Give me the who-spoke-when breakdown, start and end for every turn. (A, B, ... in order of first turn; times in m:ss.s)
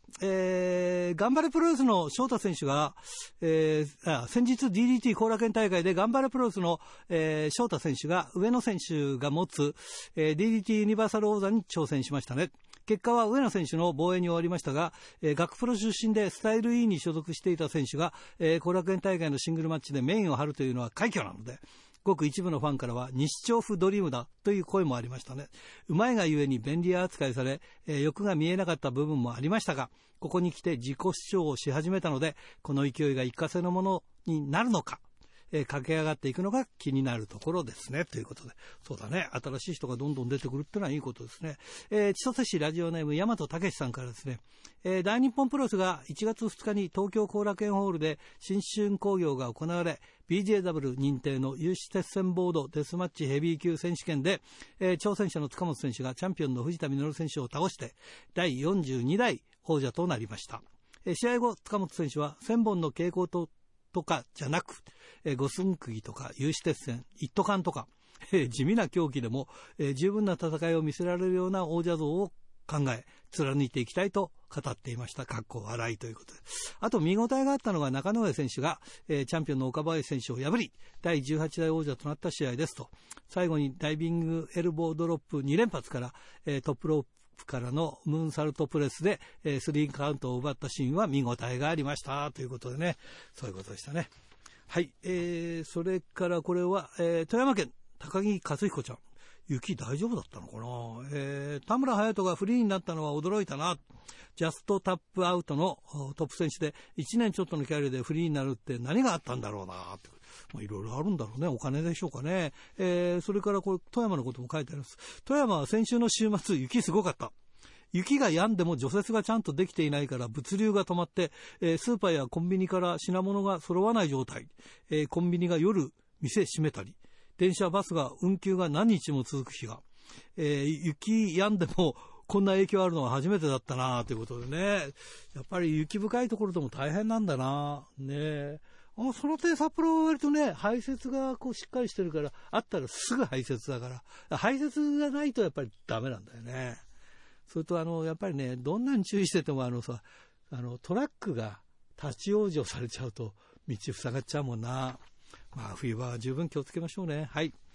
0:00.2-1:34.1 A
1:34.7-1:43.8 A
1:44.4-1:57.3 A
1:57.9-2:09.8 A
2:10.4-2:26.8 A
2:27.5-2:35.0 A
2:35.5-2:37.5 A